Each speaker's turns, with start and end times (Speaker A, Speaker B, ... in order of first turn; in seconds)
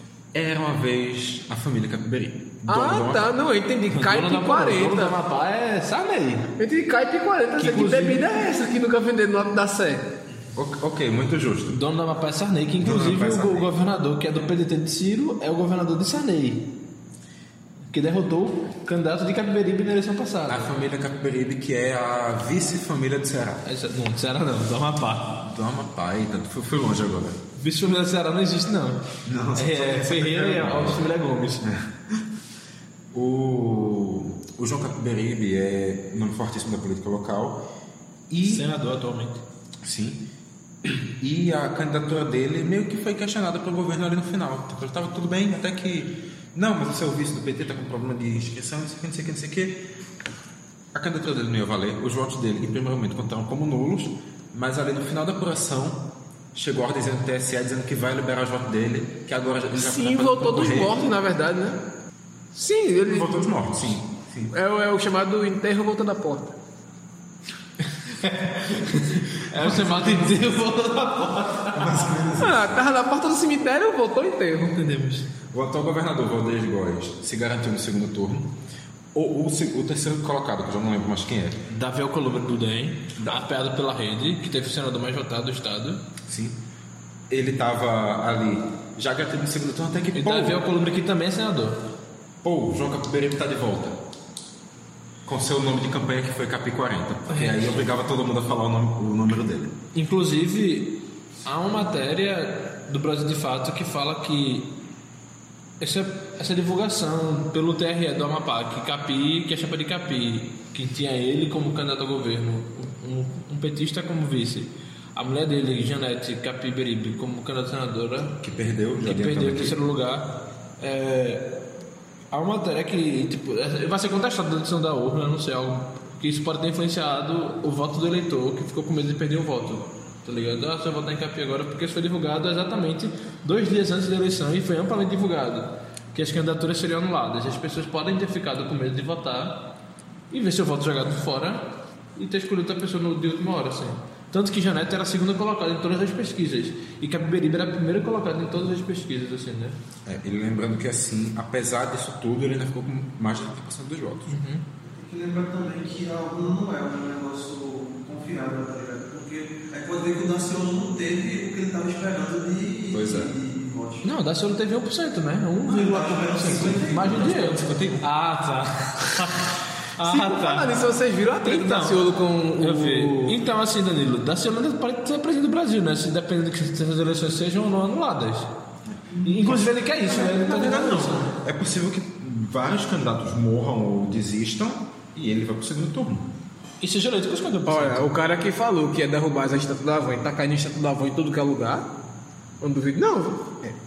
Speaker A: 0.3-3.4, 10.5-11.8, 12.8-13.7, 20.5-23.6, 25.4-27.4, 29.2-31.0, 31.6-32.2, 33.1-37.6, 38.3-38.7, 39.8-40.3, 40.8-49.8, 50.9-61.0, 63.1-64.5, 69.5-70.4, 71.7-72.8, 75.5-78.5, 79.1-81.6, 83.2-83.4, 86.3-86.6, 87.3-90.6, 92.4-94.0, 95.2-99.7, 118.4-119.8, 150.0-154.4, 162.9-163.3, 166.8-168.1, 178.9-179.7, 180.3-186.3
Speaker B: 2.7-5.2, 6.6-10.1, 59.7-61.8, 62.5-63.4, 64.5-66.5, 72.4-74.8, 170.0-173.4, 187.7-191.9, 192.6-193.6
Speaker C: 3.9-6.5, 7.6-8.2, 11.7-16.7, 17.9-20.7, 23.6-25.4, 27.6-29.0, 29.6-31.7, 38.4-39.4, 68.0-72.0, 74.8-75.3, 81.7-86.0, 90.1-91.8, 97.3-97.8, 99.9-104.8, 105.8-118.4, 119.0-121.5, 122.3-139.7, 140.3-149.8, 154.3-154.6, 164.0-170.7, 171.4-172.0, 172.6-178.5, 179.2-181.3, 186.8-188.1
Speaker D: 154.8-164.1, 165.7-167.3, 179.1-179.7